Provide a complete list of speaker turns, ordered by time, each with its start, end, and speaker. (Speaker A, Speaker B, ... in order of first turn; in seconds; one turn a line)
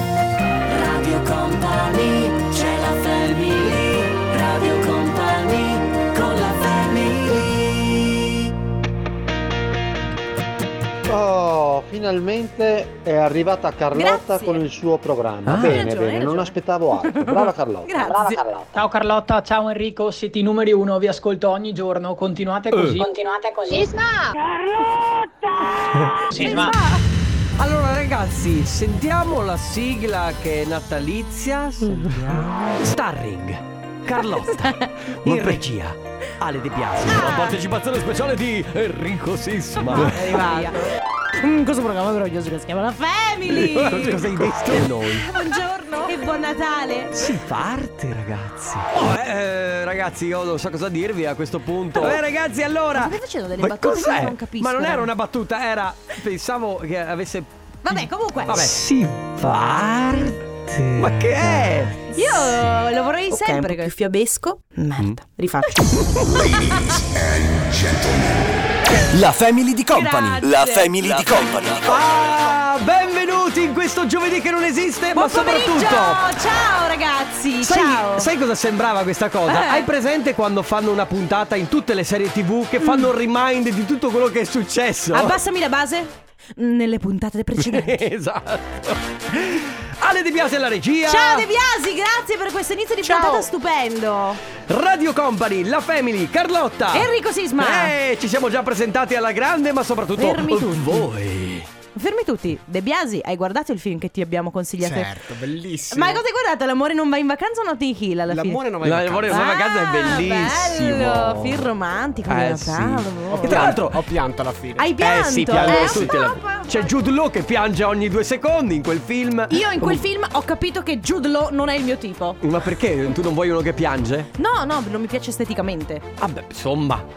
Speaker A: 0.7-7.7
Speaker B: 11.1-18.7
Speaker C: 13.9-14.6
Speaker D: 15.4-15.8
Speaker C: 15.5-18.4
Speaker E: 18.7-24.3
Speaker D: 22.7-23.0
Speaker E: 26.3-26.8
Speaker C: 26.3-27.0
Speaker D: 27.6-40.6
Speaker C: 34.2-35.6
Speaker C: 37.1-37.6
Speaker C: 39.9-47.2
Speaker D: 43.5-45.3
Speaker D: 47.1-62.1
Speaker C: 52.9-55.1
Speaker C: 57.8-58.7
Speaker C: 62.1-65.7
Speaker D: 65.8-66.5
Speaker F: 69.1-72.1
Speaker C: 69.9-70.9
Speaker D: 71.8-76.3
Speaker C: 75.1-78.3
Speaker D: 77.6-85.3
Speaker C: 79.5-79.9
Speaker C: 82.8-83.1
Speaker C: 85.1-87.9
Speaker D: 87.6-91.5
Speaker C: 91.1-94.4
Speaker D: 93.0-93.5
Speaker D: 94.7-101.7
Speaker C: 96.9-97.9
Speaker C: 100.2-101.1
Speaker C: 101.9-105.2
Speaker G: 104.8-106.2
Speaker C: 105.9-108.6
Speaker G: 108.3-109.4
Speaker D: 108.8-111.7
Speaker C: 109.3-113.8
Speaker D: 112.3-114.0
Speaker G: 113.3-116.0
Speaker C: 114.7-116.9
Speaker D: 115.0-120.0
Speaker C: 119.5-122.4
Speaker D: 122.4-124.3
Speaker C: 124.4-126.0
Speaker D: 126.2-127.0